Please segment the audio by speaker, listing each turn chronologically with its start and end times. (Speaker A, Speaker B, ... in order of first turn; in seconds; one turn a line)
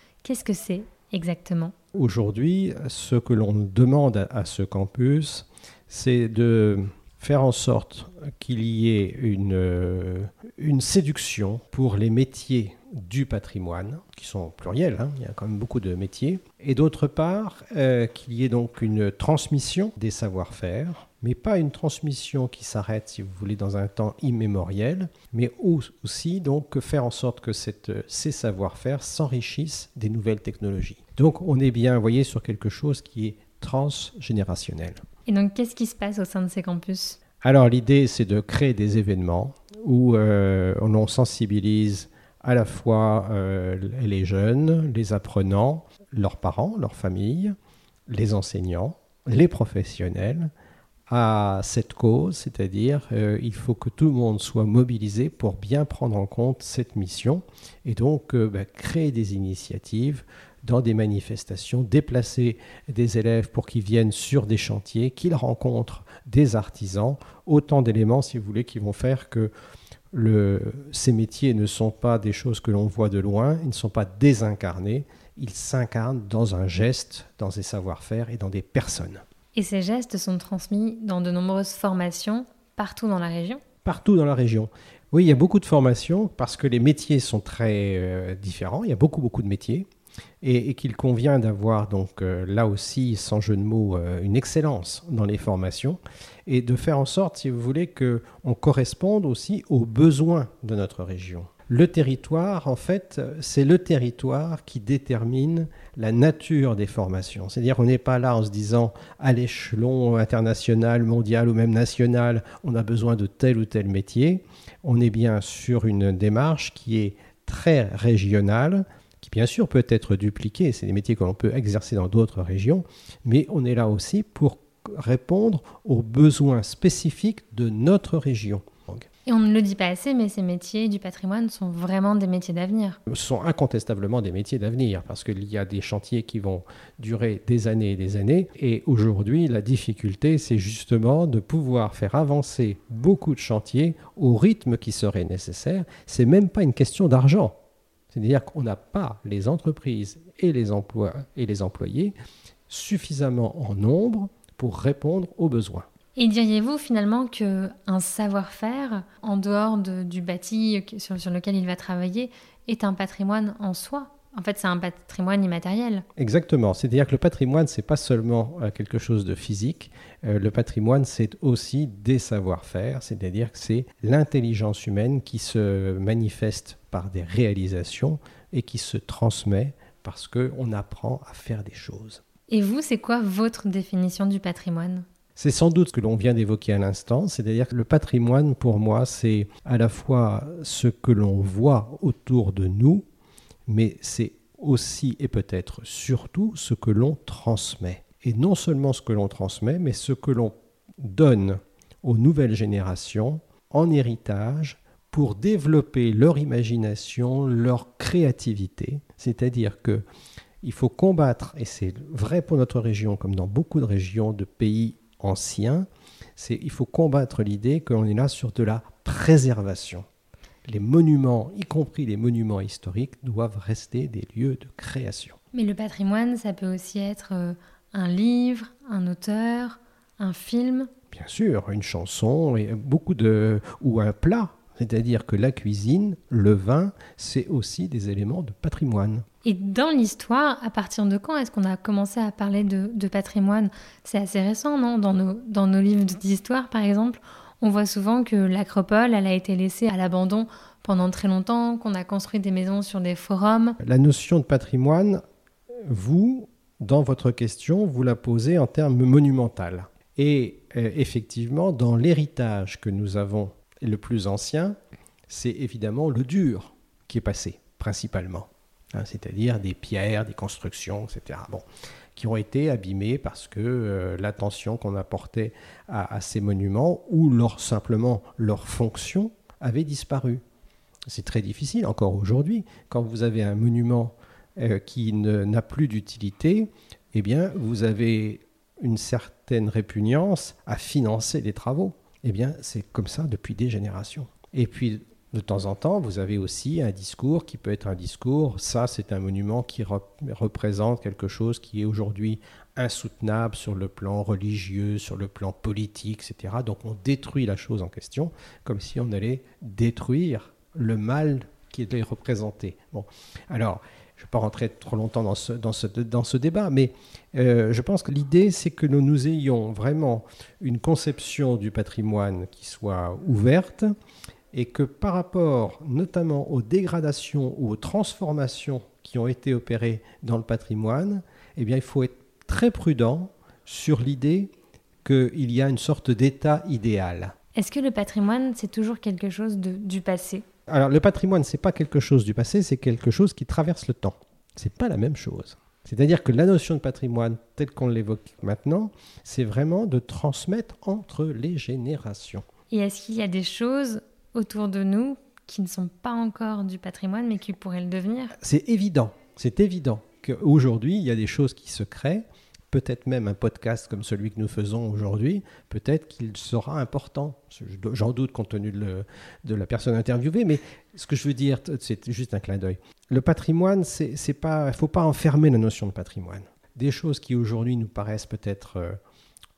Speaker A: 0.2-1.7
Speaker B: 1.9-35.0
Speaker A: 35.2-37.2
Speaker B: 37.4-47.5
Speaker B: 48.1-50.5
Speaker B: 51.1-69.5
Speaker B: 70.1-79.2
Speaker A: 79.5-83.6
Speaker B: 83.8-89.9
Speaker B: 90.4-129.0
Speaker A: 129.2-133.0
Speaker B: 133.1-147.6
Speaker B: 148.1-152.2
Speaker B: 152.7-155.9
Speaker A: 156.2-166.0
Speaker B: 166.2-182.2
Speaker A: 182.5-185.0
Speaker B: 185.3-193.1
Speaker B: 193.7-210.1
Speaker B: 210.6-220.1
Speaker B: 220.7-225.4
Speaker A: 225.5-230.9
Speaker B: 231.1-239.2
Speaker A: 239.4-253.8
Speaker B: 253.8-255.2
Speaker B: 255.9-264.8
Speaker B: 265.3-271.6
Speaker B: 272.1-280.4
Speaker B: 281.1-323.9
Speaker B: 324.5-334.5
Speaker B: 335.0-337.3
Speaker A: 337.5-340.4
Speaker B: 340.7-352.4
Speaker A: 352.7-358.3
Speaker B: 358.4-379.0